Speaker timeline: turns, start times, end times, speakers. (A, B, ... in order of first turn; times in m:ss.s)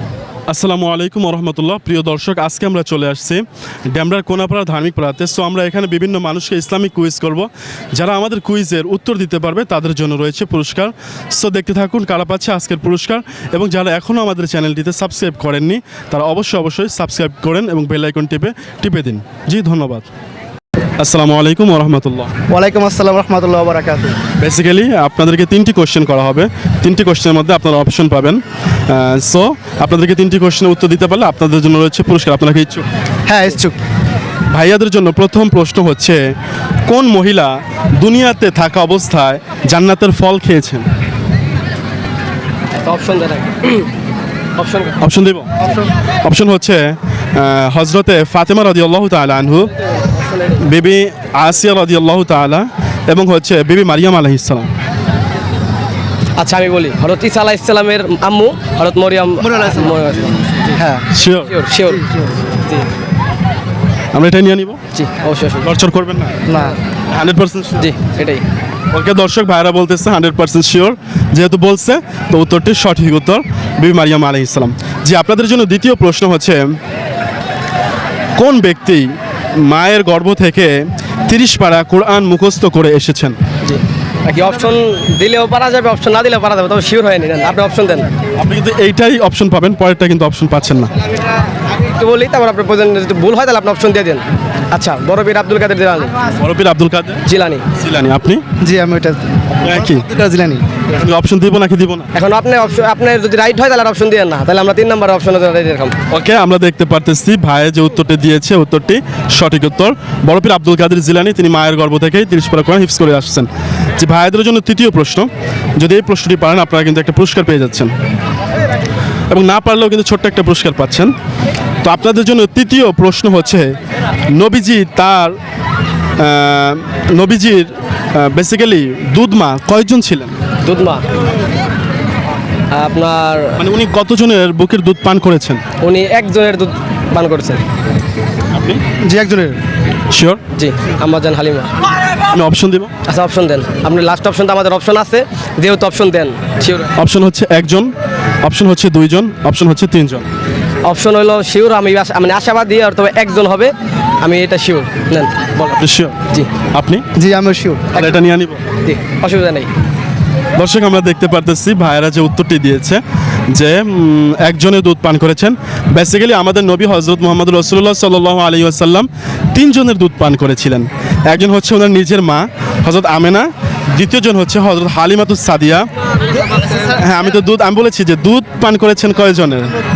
0:00.5-0:20.1 A
0:21.0-0:22.3 A
0:22.5-0:24.2 B
0:24.4-0:32.9 A
0:33.3-0:33.8 B
0:34.5-0:36.3 A
0:36.8-0:40.9 A
0:42.8-0:43.9 C
0:44.6-0:45.0 C
0:45.0-0:45.7 A
0:46.2-0:49.7 A
0:50.1-0:50.6 C
0:50.6-0:54.7 A
0:56.4-1:00.8 C
0:59.5-1:01.1 B
1:01.1-1:01.6 A
1:01.4-1:02.1 C
1:04.1-1:04.8 A
1:04.9-1:05.7 C
1:05.6-1:06.4 A
1:06.5-1:06.8 B
1:07.1-1:07.9 A
1:07.8-1:08.4 C
1:08.9-1:16.8 A
1:18.4-1:23.4 A
1:23.6-1:28.1 C
1:28.4-1:30.9 A
1:31.7-1:36.2 C
1:36.4-1:38.4 A
1:37.3-1:37.6 C
1:38.6-1:40.7 B
1:39.6-1:40.1 A
1:40.9-1:42.1 A
1:42.1-1:46.0 C
1:46.1-1:57.9 A
1:59.3-2:01.1 A
2:01.8-2:03.8 A
2:04.3-2:05.4 A
2:06.2-2:10.4 A
2:10.6-2:11.0 C
2:12.7-2:13.6 C
2:13.6-2:15.6 A
2:15.8-2:17.6 C
2:18.6-2:18.8 A
2:19.0-2:19.6 B
2:20.1-2:20.4 A
2:20.5-2:21.8 C
2:22.3-2:22.9 A
2:23.1-2:26.9 C
2:27.0-2:27.9 A
2:28.4-2:30.3 A
2:30.8-2:35.8 C
2:35.7-2:36.2 A
2:36.7-2:37.1 A
2:37.2-2:38.2 B
2:37.9-2:38.6 A
2:38.8-2:39.7 C
2:40.6-2:55.9 A
2:56.8-2:59.8 A